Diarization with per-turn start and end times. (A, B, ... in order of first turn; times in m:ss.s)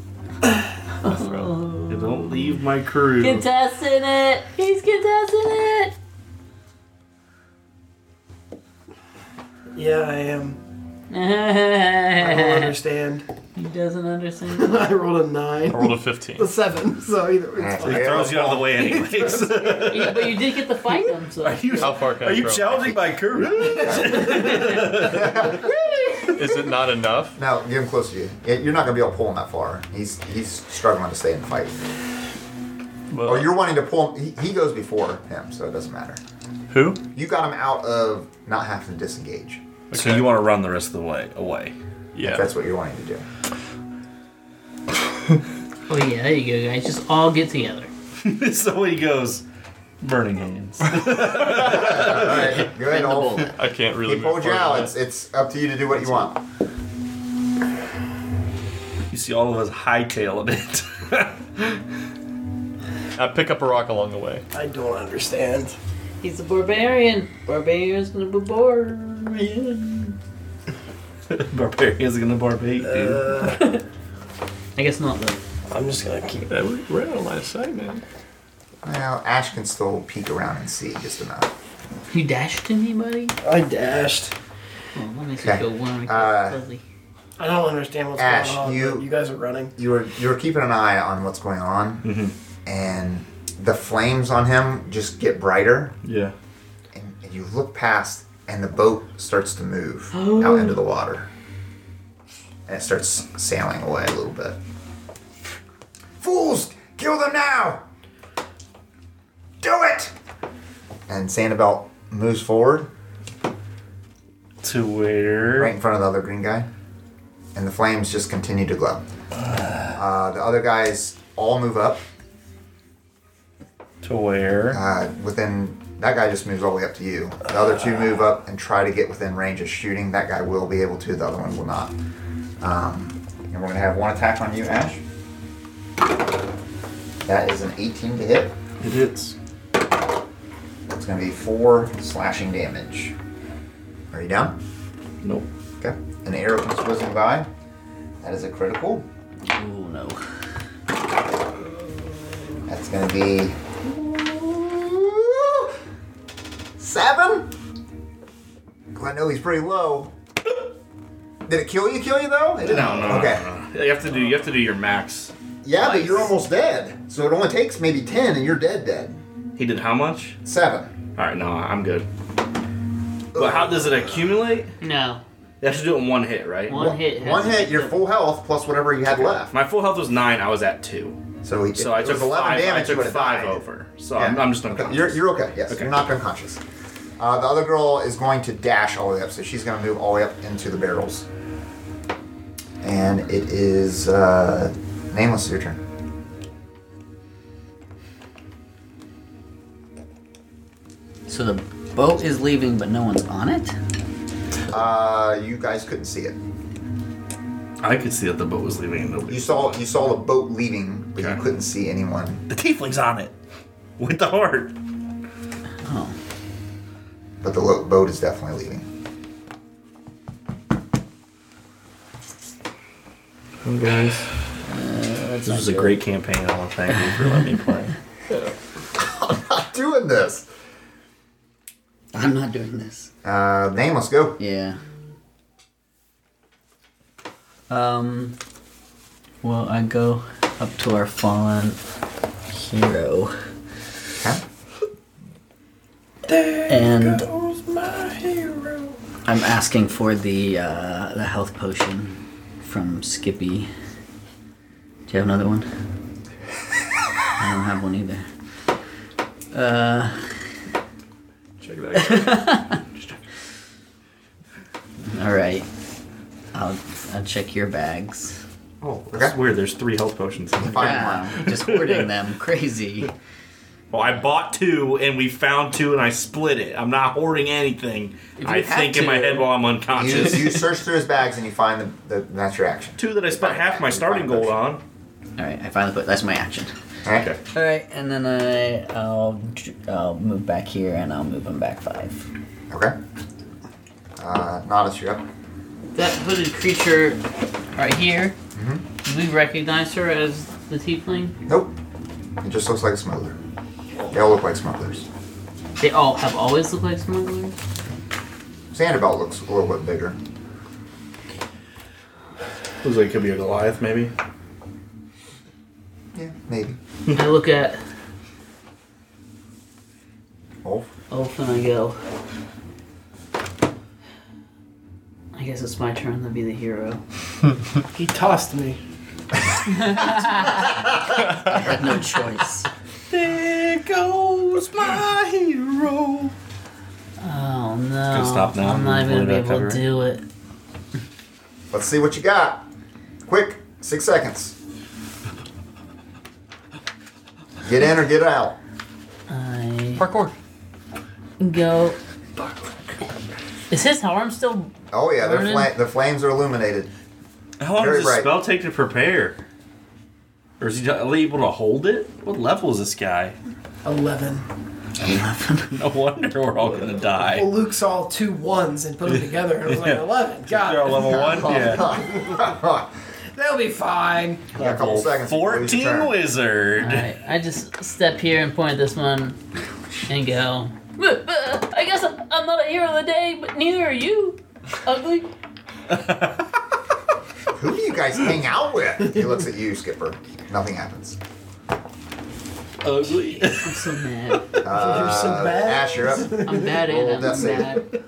0:01.0-0:02.6 A
0:01.0-0:01.6 B
0:01.9-0:03.4 C
0:03.2-0:05.9 A
0:09.7-0:10.6 D
0:11.1-0:12.7 A
0:12.2-0:13.2 D
0:13.6-0:14.8 A
0:14.5-0:20.2 D
0:15.7-0:16.5 B
0:17.6-0:18.7 E
0:17.8-0:20.4 C
0:19.8-0:21.9 A
0:21.4-0:25.6 C
0:21.8-0:23.1 B
0:23.6-0:26.7 E
0:24.1-0:24.6 A
0:26.2-0:27.4 B
0:27.4-0:31.8 E
0:33.1-0:33.6 B
0:33.2-0:36.2 E
0:36.7-0:37.0 B
0:37.2-0:39.6 E
0:39.9-0:40.4 B
0:39.9-0:41.8 C
0:42.2-0:42.5 B
0:42.2-0:43.2 E
0:45.9-0:47.9 A
0:48.2-0:49.4 C
0:50.0-0:52.7 C
0:51.4-0:56.4 E
0:52.8-0:53.5 F
0:53.5-0:54.9 B
0:59.1-1:01.7 C
1:03.2-1:04.4 B
1:04.5-1:05.8 D
1:06.2-1:10.2 A
1:11.3-1:13.4 C
1:12.8-1:13.8 D
1:13.5-1:13.8 A
1:14.8-1:15.4 A
1:15.7-1:16.5 D
1:16.5-1:18.0 B
1:18.8-1:21.5 E
1:22.1-1:23.4 A
1:23.4-1:24.3 D
1:25.0-1:26.8 A
1:25.4-1:26.6 E
1:27.4-1:29.8 D
1:28.2-1:29.1 E
1:29.8-1:32.2 E
1:32.0-1:32.3 C
1:32.7-1:36.0 E
1:36.0-1:36.3 C
1:36.9-1:41.3 E
1:40.1-1:40.8 A
1:42.7-1:44.6 E
1:46.2-1:47.8 E
1:49.6-1:50.1 E
1:51.1-1:52.9 E
1:54.6-1:55.7 C
1:55.6-1:56.7 E
1:57.6-1:59.0 E
1:59.4-2:00.0 C
1:59.9-2:02.0 E
2:04.0-2:04.8 C
2:04.7-2:11.9 E
2:12.6-2:15.0 E
2:17.3-2:18.6 E
2:18.8-2:19.4 C
2:20.9-2:23.2 E
2:24.1-2:24.6 E
2:25.2-2:25.5 C
2:25.8-2:27.5 E
2:28.2-2:29.1 E
2:29.4-2:30.2 F
2:32.7-2:35.8 E
2:36.8-2:37.5 E
2:38.9-2:40.1 E
2:41.5-2:43.4 E
2:42.6-2:45.3 C
2:45.6-2:49.2 E
2:49.6-2:50.4 C
2:50.4-2:50.9 E
2:51.2-2:52.1 C
2:53.3-2:54.3 E
2:53.3-2:54.7 C
2:54.8-2:55.2 A
2:55.6-2:56.9 C
2:56.7-2:58.0 A
2:56.7-2:59.5 E
2:59.3-3:01.2 C
3:01.4-3:03.6 E
3:01.8-3:06.0 C
3:04.2-3:06.6 E
3:07.2-3:11.3 E
3:12.8-3:15.8 E
3:21.3-3:23.8 F
3:24.7-3:26.4 E
3:27.8-3:29.8 C
3:29.3-3:32.4 E
3:32.5-3:33.3 C
3:34.0-3:34.8 C
3:35.8-3:36.2 F
3:37.4-3:38.9 E
3:43.6-3:44.3 C
3:44.7-3:46.0 F
3:45.4-3:47.9 C
3:49.0-3:50.5 E
3:52.1-3:53.1 F
3:53.2-3:54.4 E
3:54.4-3:54.8 F
3:57.7-3:58.4 F
3:59.4-4:01.8 F
4:02.5-4:03.3 F
4:06.3-4:09.0 D
4:06.7-4:07.3 F
4:09.3-4:13.7 F
4:15.1-4:15.7 F
4:17.4-4:18.3 F
4:19.5-4:20.3 F
4:21.6-4:23.2 B
4:21.9-4:22.8 F
4:25.1-4:25.7 F
4:26.5-4:28.4 F
4:28.8-4:29.4 E
4:28.8-4:32.1 C
4:30.6-4:31.4 E
4:30.7-4:33.1 F
4:33.9-4:40.7 C
4:38.4-4:39.4 A
4:38.4-4:39.4 F
4:39.9-4:44.6 E
4:43.0-4:44.8 C
4:45.4-4:46.7 F
4:47.5-4:52.3 F
4:52.7-4:53.0 E
4:54.2-4:55.2 E
4:56.0-4:57.2 A
4:57.8-4:58.4 A
4:58.5-4:58.8 E
4:59.0-5:01.4 A
5:01.5-5:01.8 E
5:02.4-5:03.4 E
5:04.1-5:05.1 E
5:05.8-5:07.6 A
5:08.7-5:10.2 E
5:12.8-5:14.1 C
5:16.1-5:16.8 E
5:17.1-5:17.8 A
5:20.6-5:20.9 E
5:21.1-5:22.0 A
5:25.3-5:27.0 A
5:27.9-5:28.8 D
5:29.7-5:30.7 A
5:30.5-5:31.3 E
5:31.4-5:32.7 F
5:33.1-5:36.3 C
5:37.2-5:40.2 A
5:38.1-5:39.8 C
5:41.7-5:42.7 E
5:43.3-5:44.6 E
5:47.6-5:48.6 E
5:49.3-5:50.1 A
5:50.0-5:50.3 B
5:51.4-5:52.0 A
5:53.7-5:55.7 A
5:54.9-5:56.9 E
5:57.6-5:59.4 C
5:57.7-5:58.3 E
6:00.6-6:03.4 C
6:03.8-6:04.5 D
6:05.0-6:05.8 F
6:05.7-6:07.5 C
6:06.7-6:12.5 D
6:09.1-6:11.9 C
6:10.9-6:12.9 E
6:13.3-6:15.0 D
6:14.6-6:16.2 E
6:14.6-6:17.1 C
6:16.8-6:19.4 A
6:20.1-6:25.3 A
6:25.9-6:26.4 C
6:27.5-6:31.2 E
6:32.8-6:34.6 C
6:33.6-6:34.5 A
6:34.6-6:37.8 E
6:34.7-6:36.8 D
6:36.4-6:37.8 A